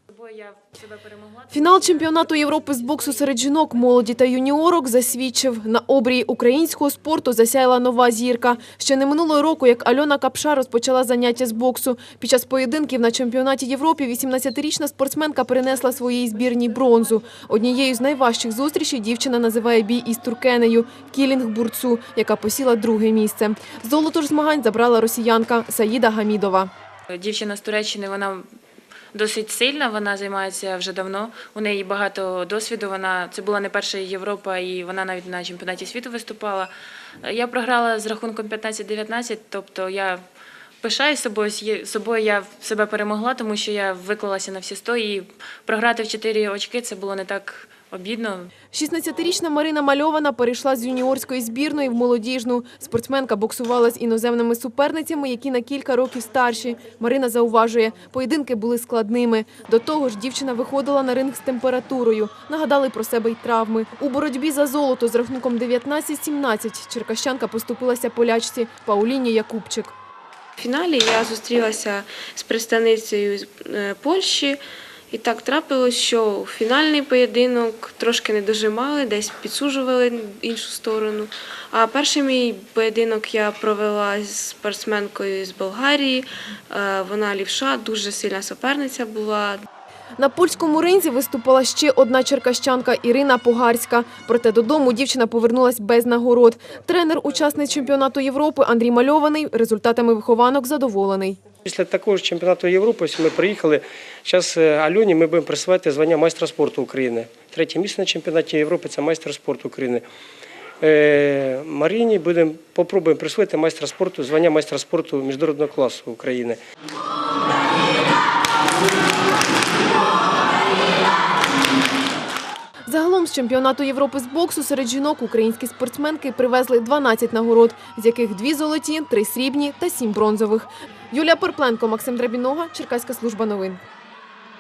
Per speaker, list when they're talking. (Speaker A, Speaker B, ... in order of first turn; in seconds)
Speaker A: 0.1-3.4, 27.1-28.5, 29.1-36.7, 37.2-40.2, 40.8-48.5
Speaker B: 1.5-26.7, 48.7-70.0, 90.2-101.4, 122.9-133.8
Speaker C: 70.6-89.7
Speaker D: 101.7-110.0, 110.8-116.6